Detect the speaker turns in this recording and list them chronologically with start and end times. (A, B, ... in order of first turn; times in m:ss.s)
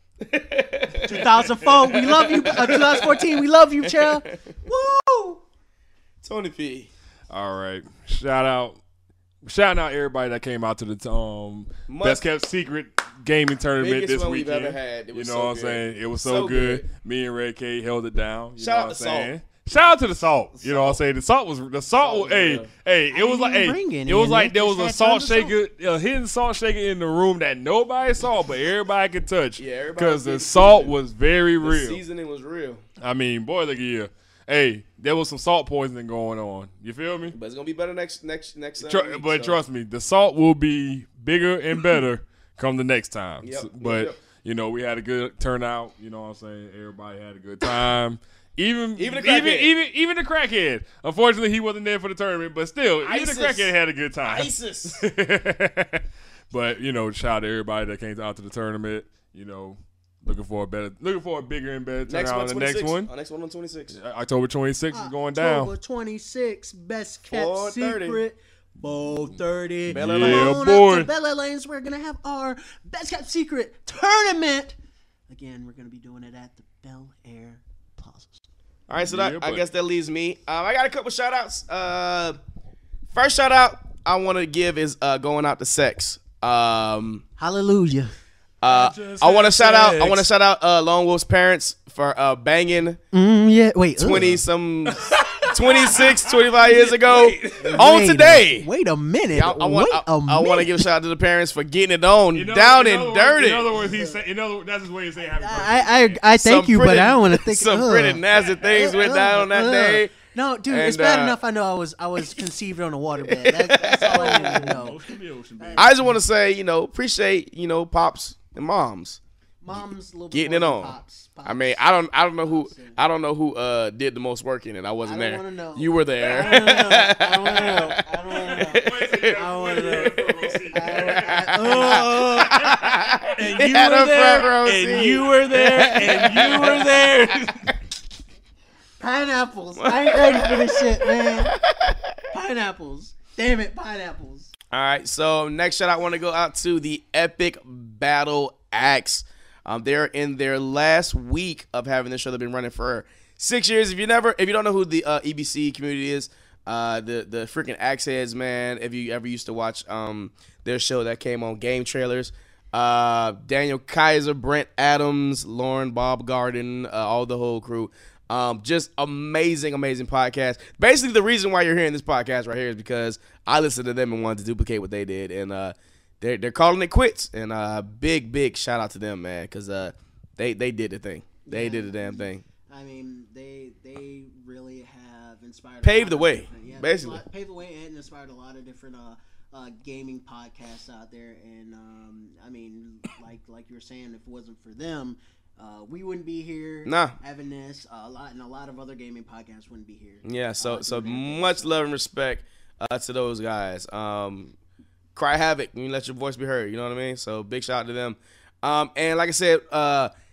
0:00.2-0:03.3 A
0:01.0-0:05.4 B
0:03.9-0:04.4 A
0:06.2-0:06.9 A
0:07.3-0:08.8 C
0:09.4-0:32.0 C
0:11.9-0:12.3 A
0:13.8-0:16.8 A
0:18.6-0:19.3 A
0:20.6-0:21.0 A
0:22.0-0:22.7 A
0:23.1-0:25.6 B
0:29.6-0:31.0 A
0:31.6-0:32.8 A
0:33.0-0:37.4 C
0:37.3-0:39.6 A
0:38.8-1:03.1 C
0:43.4-0:44.2 A
0:49.0-0:49.7 A
0:53.0-0:55.0 A
1:02.1-1:04.0 A
1:03.9-1:05.7 C
1:04.9-1:14.8 B
1:07.3-1:08.2 A
1:09.9-1:10.6 A
1:10.0-1:11.1 C
1:15.3-1:18.4 B
1:18.9-1:22.4 A
1:19.0-1:19.6 C
1:23.1-1:27.2 A
1:27.4-1:28.1 B
1:28.6-1:33.0 A
1:28.6-1:30.3 D
1:33.1-1:34.4 B
1:34.0-1:38.7 A
1:34.9-1:37.9 D
1:37.6-1:40.9 B
1:39.3-1:43.8 A
1:42.3-1:46.2 C
1:43.7-1:44.2 B
1:45.3-1:55.0 B
1:46.4-1:50.2 A
1:50.7-1:51.4 A
1:53.2-1:54.8 A
1:54.0-1:56.0 D
1:55.6-1:56.1 B
1:55.8-1:59.2 A
1:59.6-2:03.0 B
2:00.3-2:09.4 A
2:05.0-2:12.4 B
2:08.4-2:13.3 C
2:10.8-2:17.1 A
2:11.6-2:12.5 D
2:13.4-2:17.8 D
2:19.0-2:21.6 B
2:19.8-2:22.2 A
2:22.3-2:24.5 B
2:24.7-3:02.4 A
3:01.5-3:21.8 B
3:05.8-3:07.2 A
3:16.8-3:17.2 A
3:20.2-3:24.6 A
3:25.2-3:30.1 A